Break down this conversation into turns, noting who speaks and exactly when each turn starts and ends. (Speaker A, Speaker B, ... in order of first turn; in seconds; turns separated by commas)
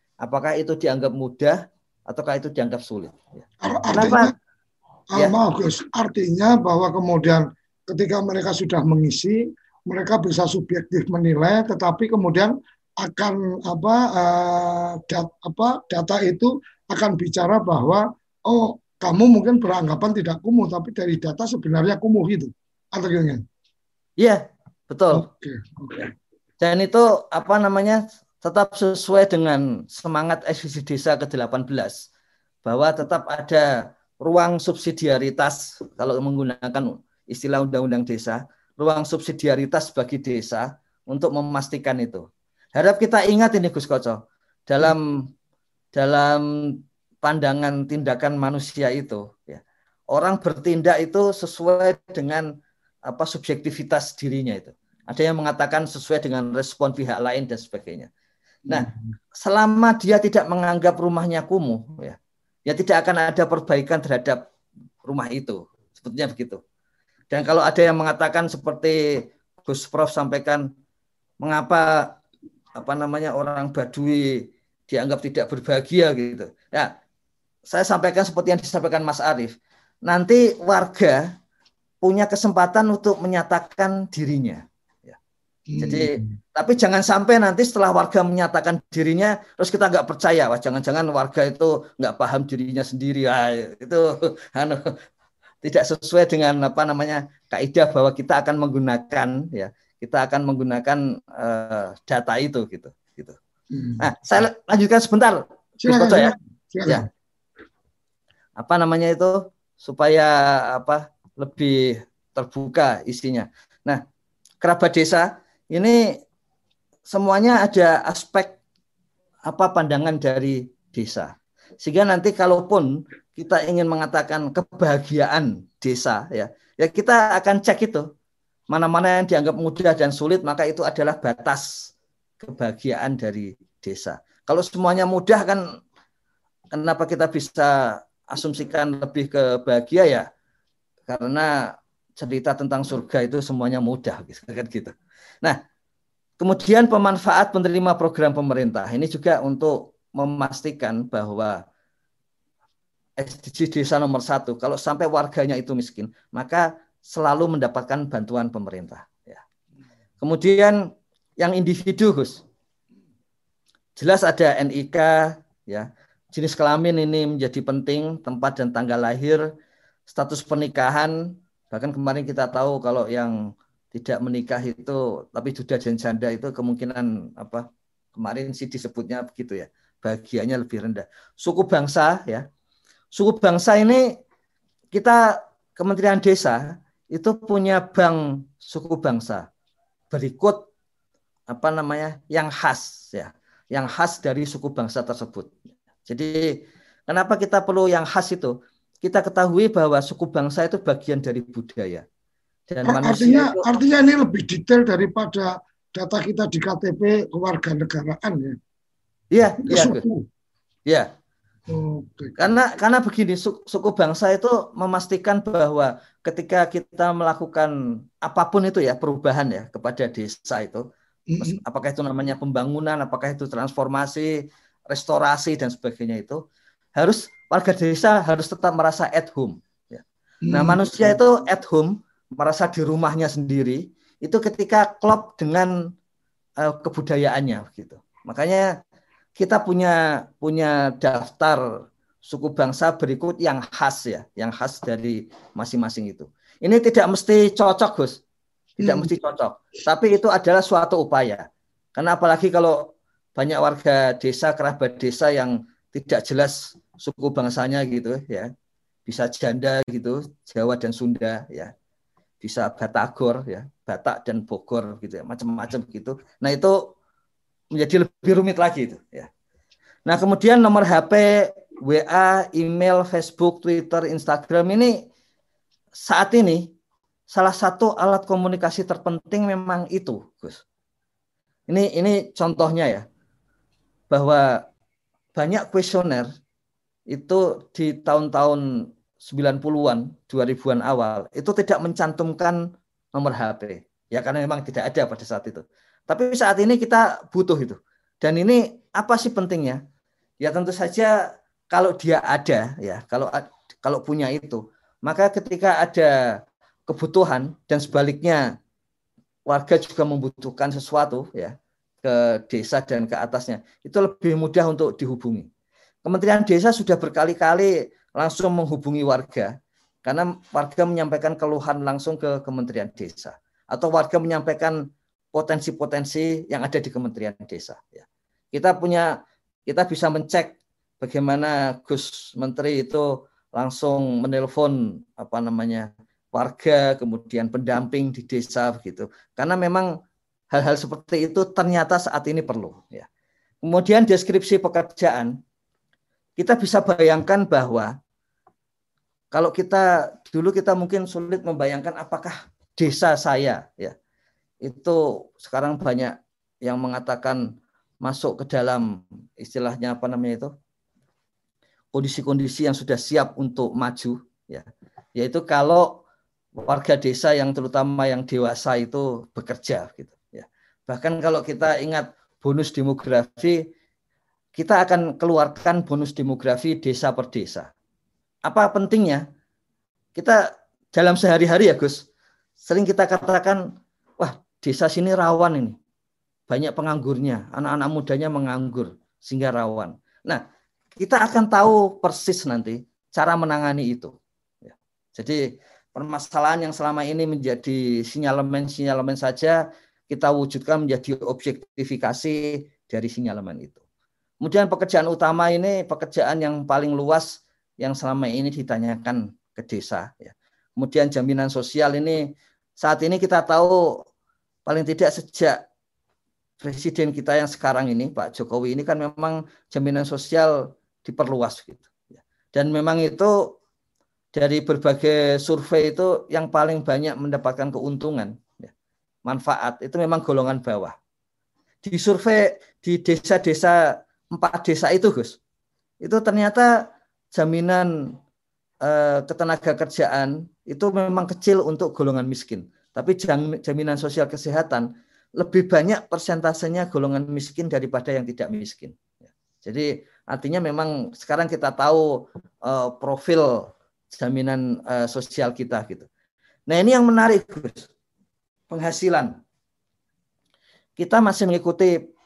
Speaker A: 0.2-1.6, Speaker A: 2.1-4.3, Speaker B: 3.6-4.3, Speaker B: 5.2-23.4, Speaker A: 24.2-25.2, Speaker B: 25.1-26.1, Speaker A: 26.6-32.0, Speaker A: 32.6-33.7, Speaker A: 34.2-45.2, Speaker A: 46.0-49.6, Speaker A: 50.1-52.5, Speaker A: 53.1-58.1, Speaker B: 58.7-59.0, Speaker A: 59.4-64.4, Speaker A: 65.0-66.6, Speaker A: 67.3-69.0, Speaker A: 69.7-70.7, Speaker A: 71.4-72.2, Speaker A: 72.8-76.9, Speaker A: 77.7-79.5, Speaker A: 80.1-81.3, Speaker A: 82.0-85.2, Speaker B: 85.7-86.3, Speaker A: 85.8-94.9, Speaker A: 95.6-103.4, Speaker B: 103.7-104.1, Speaker A: 104.0-106.3, Speaker B: 105.8-107.1, Speaker A: 108.6-114.0, Speaker A: 114.6-116.0, Speaker A: 117.1-118.5, Speaker A: 119.5-128.1, Speaker A: 128.7-131.7, Speaker A: 132.4-135.6, Speaker A: 136.8-137.7, Speaker A: 138.3-140.3, Speaker A: 141.1-141.5, Speaker A: 142.2-145.6, Speaker A: 146.4-151.6, Speaker A: 153.2-159.4, Speaker A: 160.2-160.8, Speaker A: 161.4-162.4, Speaker A: 164.0-169.4, Speaker A: 170.1-171.2, Speaker A: 171.7-173.4, Speaker A: 173.9-177.7, Speaker A: 178.2-182.4, Speaker A: 183.1-184.1, Speaker A: 184.9-185.2, Speaker A: 185.8-189.5, Speaker A: 190.1-190.6, Speaker A: 191.5-195.5, Speaker A: 196.1-196.5, Speaker A: 197.1-202.0, Speaker A: 202.7-203.7, Speaker B: 202.8-208.6, Speaker A: 209.3-210.0, Speaker B: 209.6-210.3, Speaker B: 211.7-212.3, Speaker A: 212.4-220.8, Speaker B: 221.3-221.6, Speaker A: 221.4-224.3, Speaker A: 224.9-226.4, Speaker A: 227.0-235.7, Speaker B: 230.5-231.2, Speaker A: 236.6-238.7, Speaker A: 239.4-241.6, Speaker A: 242.2-248.2, Speaker B: 248.8-249.1, Speaker A: 248.8-251.4, Speaker A: 252.0-252.8, Speaker A: 253.4-258.5, Speaker A: 259.1-261.7, Speaker A: 262.4-266.8, Speaker A: 267.8-269.3, Speaker A: 270.1-275.0, Speaker A: 276.0-276.7, Speaker A: 277.3-280.6, Speaker A: 281.7-283.1, Speaker A: 284.1-284.4, Speaker A: 285.4-286.3, Speaker A: 287.1-288.6, Speaker A: 289.2-292.6, Speaker A: 293.1-299.8, Speaker A: 300.4-301.1, Speaker A: 301.7-306.1, Speaker A: 306.9-308.4, Speaker A: 309.5-315.5, Speaker A: 316.1-319.5, Speaker A: 320.1-324.8, Speaker A: 325.3-329.1, Speaker A: 329.7-339.9, Speaker A: 340.5-343.1, Speaker A: 343.6-345.3, Speaker A: 346.4-347.9, Speaker A: 349.3-353.9, Speaker A: 354.6-357.4, Speaker A: 358.0-358.9, Speaker A: 359.4-360.5, Speaker A: 361.9-364.7, Speaker A: 365.2-365.9, Speaker A: 366.6-373.6, Speaker A: 374.6-377.7, Speaker A: 378.5-379.2, Speaker A: 380.9-382.0, Speaker A: 382.6-383.6, Speaker A: 384.2-385.8, Speaker A: 386.5-390.4, Speaker A: 391.0-394.1, Speaker A: 394.6-395.4, Speaker A: 395.9-403.8, Speaker A: 404.4-412.2, Speaker A: 412.8-413.8, Speaker A: 414.7-415.6, Speaker A: 416.6-423.5, Speaker A: 424.4-428.7, Speaker A: 429.3-430.9, Speaker A: 431.8-433.8, Speaker A: 434.3-435.4, Speaker A: 436.0-436.7, Speaker A: 437.3-437.9, Speaker A: 438.8-452.1, Speaker A: 452.7-456.1, Speaker A: 456.7-457.9, Speaker A: 458.7-459.3, Speaker A: 461.0-462.0